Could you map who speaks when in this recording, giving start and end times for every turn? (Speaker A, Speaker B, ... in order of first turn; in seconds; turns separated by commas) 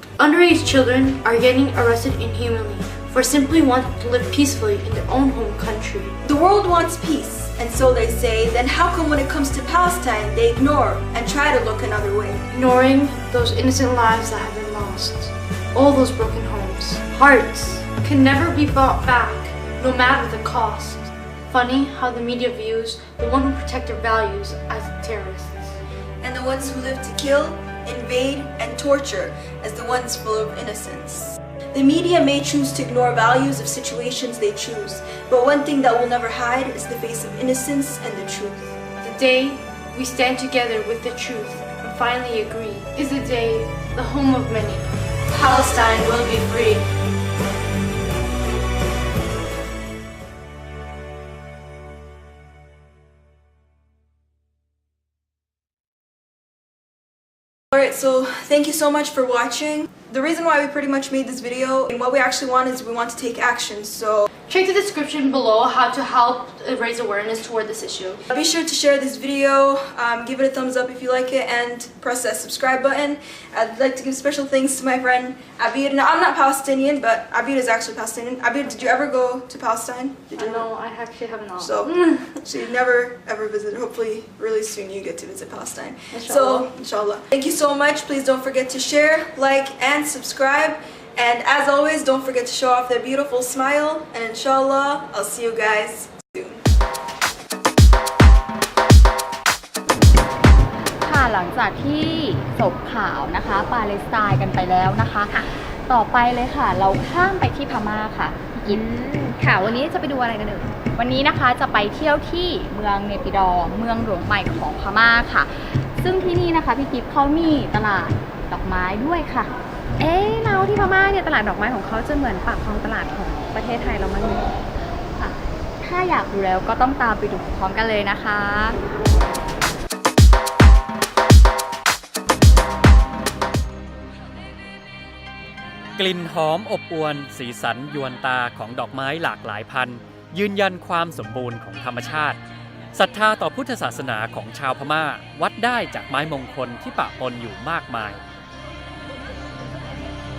Speaker A: 0.2-6.2, Speaker B: 6.2-12.4, Speaker A: 12.5-25.8, Speaker B: 26.2-38.8, Speaker A: 39.0-46.9, Speaker B: 57.7-64.3, Speaker A: 64.5-68.2, Speaker B: 68.3-80.7, Speaker A: 80.3-82.5, Speaker B: 81.6-81.9, Speaker B: 82.4-96.6, Speaker A: 86.1-86.8, Speaker C: 101.0-108.8, Speaker D: 108.6-110.8, Speaker C: 111.0-119.5, Speaker D: 120.0-124.5, Speaker C: 125.2-128.8, Speaker E: 136.0-142.4, Speaker E: 142.9-148.2